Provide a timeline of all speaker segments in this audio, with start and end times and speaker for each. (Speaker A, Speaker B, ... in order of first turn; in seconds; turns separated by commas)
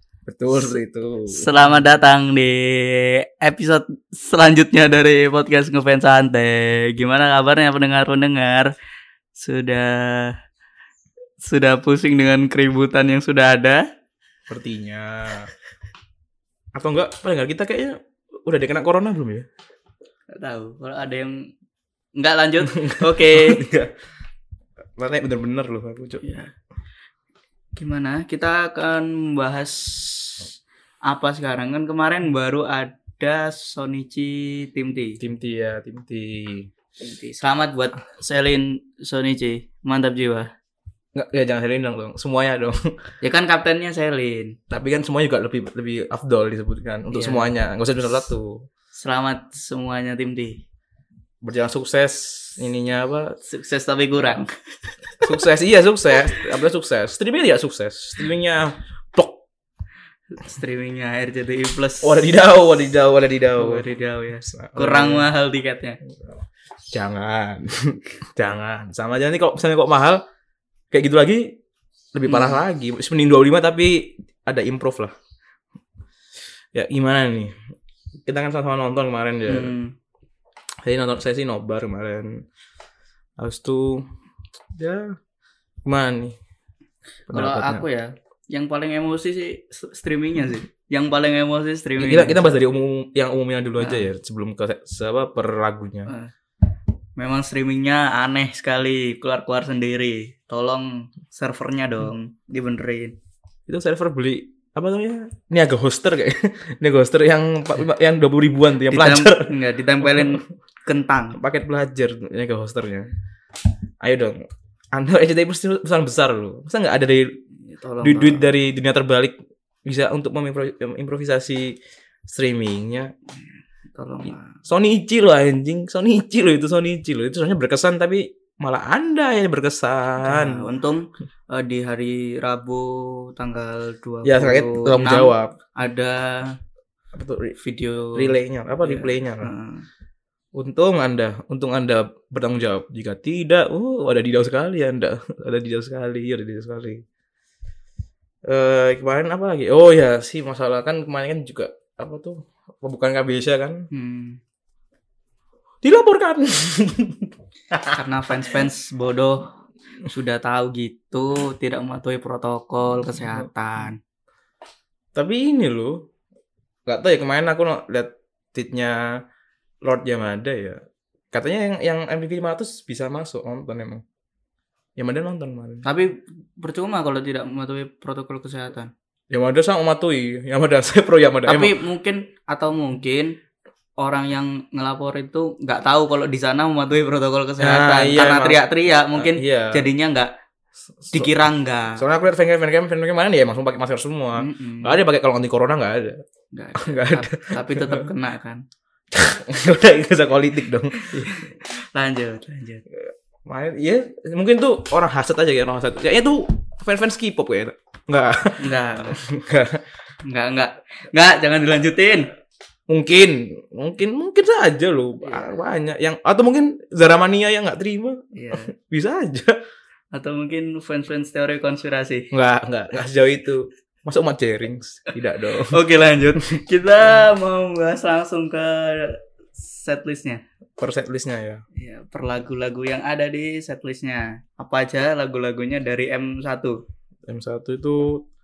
Speaker A: 0.3-1.6, Speaker B: 1.3-8.7, Speaker B: 9.4-10.4, Speaker B: 11.4-13.9, Speaker A: 14.5-15.5, Speaker A: 16.8-19.5, Speaker B: 20.3-21.5, Speaker B: 22.2-23.6, Speaker A: 22.7-23.9, Speaker A: 25.0-26.2, Speaker B: 26.2-26.5, Speaker B: 27.8-30.5, Speaker B: 31.1-35.2, Speaker A: 35.2-36.7, Speaker B: 37.0-40.5, Speaker A: 41.1-42.9, Speaker B: 43.2-44.6, Speaker A: 44.7-48.7, Speaker B: 47.1-47.5, Speaker B: 49.0-50.6, Speaker A: 51.4-53.4, Speaker B: 53.5-54.6, Speaker A: 55.2-59.4, Speaker B: 60.3-62.2, Speaker A: 62.0-63.9, Speaker B: 63.5-66.0, Speaker A: 64.4-65.3, Speaker A: 66.9-70.2, Speaker A: 70.9-71.5, Speaker A: 72.1-75.1, Speaker B: 72.3-72.6, Speaker A: 76.7-77.5, Speaker A: 78.2-79.7, Speaker B: 79.5-79.9, Speaker A: 80.8-82.4, Speaker A: 83.4-84.1, Speaker A: 84.8-85.2, Speaker A: 85.9-86.4, Speaker A: 87.3-87.8, Speaker B: 87.3-92.5, Speaker A: 92.0-96.1, Speaker B: 93.8-94.1, Speaker B: 97.2-103.1, Speaker A: 103.7-110.4, Speaker B: 108.9-111.4, Speaker A: 111.3-113.1, Speaker A: 114.0-114.4, Speaker A: 114.9-117.3, Speaker B: 117.7-118.5, Speaker A: 118.0-121.8, Speaker A: 122.3-123.1, Speaker B: 124.0-124.5, Speaker A: 124.7-130.7, Speaker B: 130.2-136.6, Speaker A: 134.2-135.6, Speaker A: 137.1-137.6, Speaker B: 137.6-139.9, Speaker A: 138.1-139.5, Speaker A: 140.6-147.0, Speaker A: 148.5-153.9, Speaker B: 153.9-154.4, Speaker A: 155.8-158.0, Speaker B: 157.9-159.5, Speaker B: 160.1-164.0, Speaker A: 163.2-163.5, Speaker A: 165.2-166.1, Speaker A: 166.9-169.0, Speaker A: 169.8-170.8, Speaker A: 171.3-174.0, Speaker A: 175.0-175.8, Speaker B: 175.8-178.9, Speaker A: 179.3-181.8, Speaker B: 181.5-183.3, Speaker B: 184.0-190.3, Speaker A: 187.6-189.9, Speaker A: 191.0-191.3, Speaker B: 191.1-192.0, Speaker A: 192.0-196.2, Speaker B: 194.4-195.0, Speaker B: 196.5-198.6, Speaker A: 196.8-198.1, Speaker A: 199.1-201.3, Speaker B: 200.9-202.8, Speaker A: 202.9-209.8, Speaker B: 208.6-209.2, Speaker B: 210.2-212.3, Speaker A: 212.9-219.6, Speaker B: 215.2-215.6, Speaker B: 218.3-218.7, Speaker B: 220.1-222.3, Speaker A: 222.3-225.8, Speaker B: 225.4-230.4, Speaker A: 226.4-226.6, Speaker A: 230.8-231.6, Speaker B: 231.8-236.8, Speaker A: 237.3-238.2